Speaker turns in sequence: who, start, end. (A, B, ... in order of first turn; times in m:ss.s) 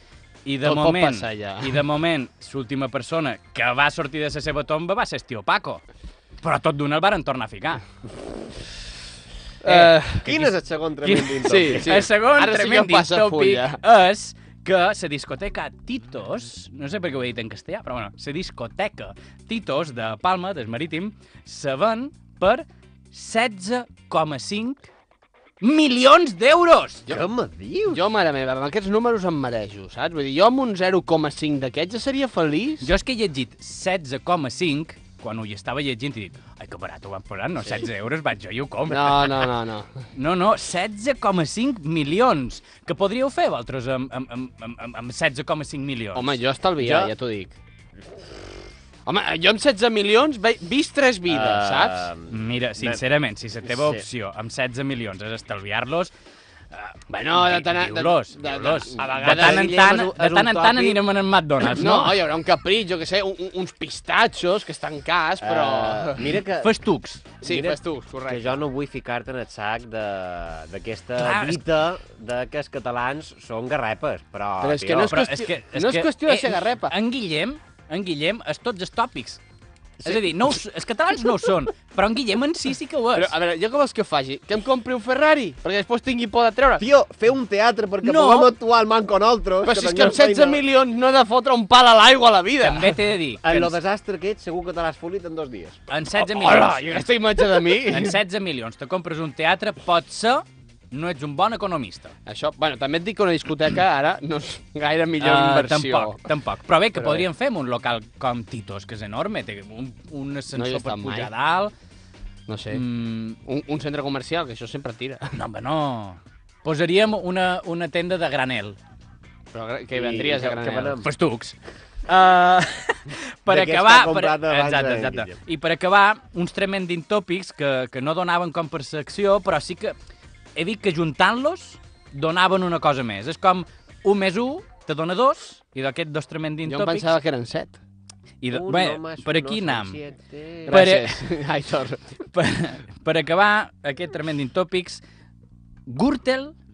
0:00.4-0:05.8 A
0:00.6-0:01.8 B
0:06.4-0:07.8 A
0:09.6-0:10.2 B
0:09.7-0:10.5 A
0:10.2-0:12.0 C
0:11.0-0:24.9 A
0:11.4-0:13.8 B
0:25.6-0:27.0 A
0:27.1-0:28.0 C
0:27.9-0:32.9 B
0:32.8-0:39.5 A
0:38.9-0:40.0 B
0:40.1-0:46.4 A
0:46.1-0:47.6 B
0:46.8-0:47.1 C
0:49.0-0:52.0 B
0:51.3-0:53.0 C
0:52.3-0:56.1 A
0:53.7-0:54.0 C
0:56.7-1:02.3 A
0:57.1-1:01.0 B
0:59.0-0:59.6 C
1:01.6-1:06.3 B
1:05.4-1:06.7 C
1:06.6-1:07.3 A
1:07.4-1:08.6 B
1:07.4-1:15.1 C
1:11.2-1:11.6 A
1:14.6-1:16.9 B
1:14.9-1:19.4 A
1:20.0-1:23.3 A
1:23.1-1:26.8 B
1:26.8-1:30.6 C
1:28.0-1:28.5 A
1:29.6-1:32.9 B
1:32.6-1:33.8 A
1:33.4-1:35.8 C
1:35.9-1:42.1 A
1:36.2-1:38.2 B
1:42.2-1:46.2 B
1:45.2-1:51.7 A
1:50.5-1:51.3 B
1:52.5-1:52.8 B
1:52.7-1:53.4 A
1:53.4-1:55.4 B
1:55.3-1:58.8 A
1:59.5-2:01.0 B
1:59.9-2:01.0 C
2:01.0-2:01.6 A
2:02.1-2:10.0 A
2:03.5-2:05.4 C
2:10.6-2:17.1 A
2:16.6-2:17.8 B
2:18.4-2:20.0 A
2:18.5-2:20.8 C
2:20.7-2:22.0 B
2:20.7-2:21.2 A
2:22.3-2:25.0 A
2:25.9-2:26.5 A